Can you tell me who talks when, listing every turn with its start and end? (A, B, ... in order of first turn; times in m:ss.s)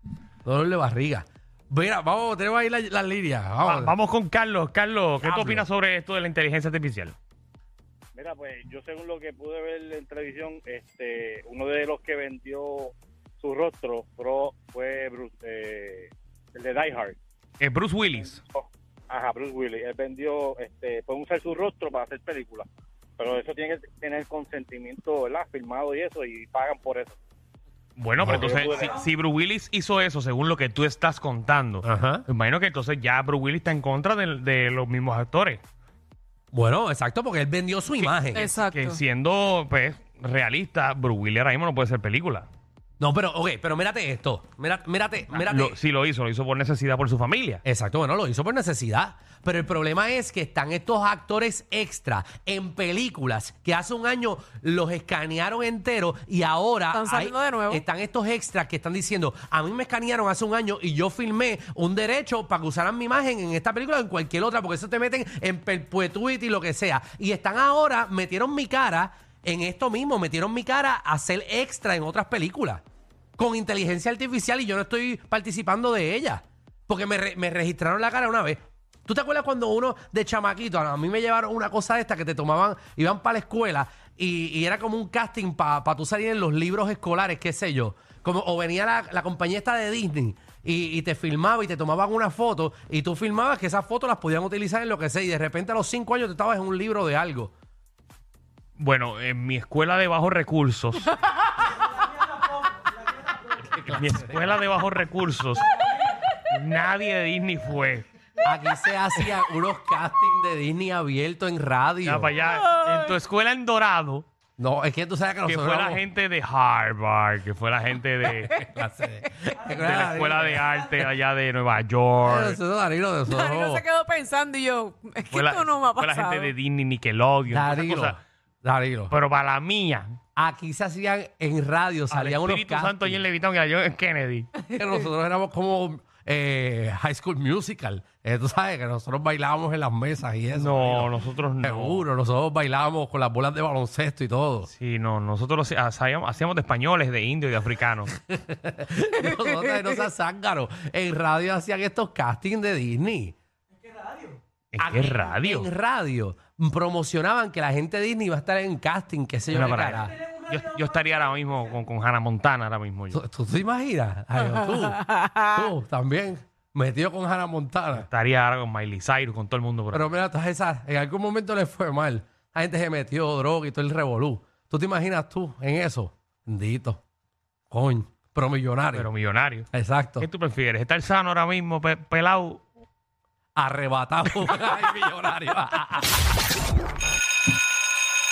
0:00.4-0:04.0 A
0:03.6-0:07.1 B
0:05.2-0:05.6 A
0:08.2-0:17.2 C
0:17.6-0:18.4 B
0:18.2-0:22.7 C
0:23.2-0:27.2 C
0:28.0-0:35.6 B
0:28.2-0:28.5 A
0:28.2-0:29.0 C
0:31.8-0:32.2 A
0:36.5-0:38.5 A
0:38.0-0:42.5 B
0:38.3-0:39.0 D
0:43.0-0:45.8 A
0:45.3-0:47.6 B
0:47.6-1:12.8 A
0:56.9-0:57.8 D
1:13.4-1:37.5 A
1:38.8-1:41.1 B
1:43.7-1:45.8 B
1:46.5-1:48.1 B
1:48.4-1:52.3 A
1:52.0-1:54.2 B
1:54.6-1:56.0 A
1:55.4-1:58.5 B
1:58.2-2:00.7 A
1:59.6-2:02.6 B
2:02.2-2:03.8 A
2:03.3-2:06.5 D
2:05.3-2:08.2 B
2:07.5-2:09.1 A
2:09.1-2:10.2 B
2:10.4-2:13.2 A
2:12.1-2:14.5 B
2:14.7-2:24.7 A
2:20.5-2:22.0 B
2:24.7-2:28.1 B
2:28.2-2:33.3 A
2:34.7-2:35.7 B
2:34.8-2:40.1 A
2:39.5-2:43.2 B
2:43.1-2:48.1 A
2:47.9-2:50.1 B
2:49.9-2:57.0 A
2:57.7-2:59.1 A
2:58.9-2:59.7 B
2:59.7-3:00.3 A
3:00.2-3:02.6 B
3:03.6-3:06.3 A